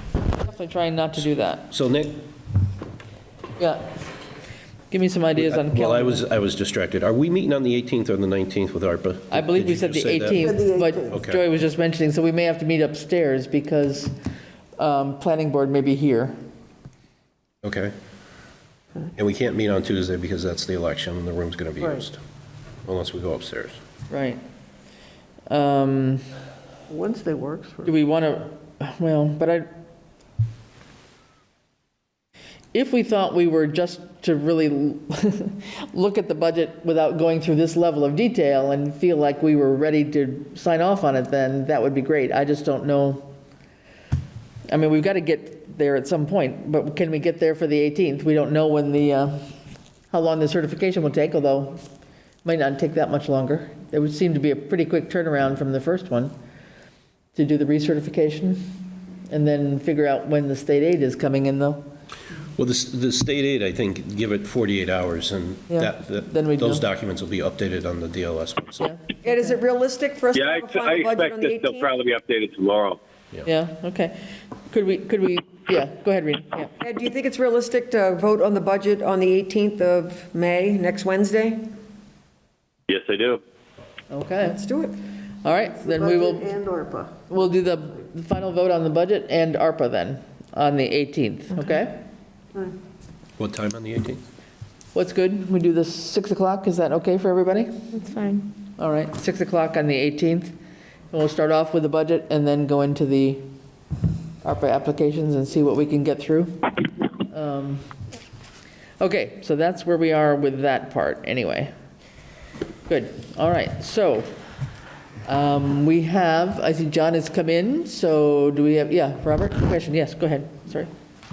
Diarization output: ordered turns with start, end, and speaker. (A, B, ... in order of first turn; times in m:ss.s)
0:00.4-0:01.7 A
0:01.7-0:02.2 B
0:03.6-0:03.9 A
0:04.9-0:06.2 A
0:05.4-0:10.5 B
0:09.3-0:14.1 A
0:10.4-0:11.2 C
0:11.1-0:11.4 B
0:14.8-0:16.3 A
0:17.6-0:17.9 B
0:19.2-0:22.2 B
0:22.8-0:23.8 B
0:24.1-0:24.4 A
0:25.5-0:26.2 A
0:26.9-0:27.9 C
0:27.8-0:29.7 A
0:32.7-0:43.3 A
0:44.7-0:49.5 A
0:50.1-0:51.8 A
0:52.4-0:56.3 A
0:57.3-0:58.8 A
0:59.3-1:01.8 A
1:02.6-1:08.9 B
1:05.7-1:06.8 A
1:08.8-1:09.4 A
1:09.2-1:11.9 D
1:10.3-1:13.0 E
1:13.4-1:16.7 A
1:16.8-1:21.7 D
1:22.9-1:23.4 E
1:24.1-1:24.6 A
1:24.4-1:25.0 D
1:25.4-1:26.5 A
1:25.4-1:27.1 C
1:27.3-1:32.0 A
1:33.4-1:34.2 B
1:34.9-1:38.0 A
1:38.8-1:40.5 A
1:41.1-1:43.5 A
1:44.4-1:47.9 A
1:49.0-1:51.7 A
1:52.9-1:54.3 A
1:55.2-2:00.9 A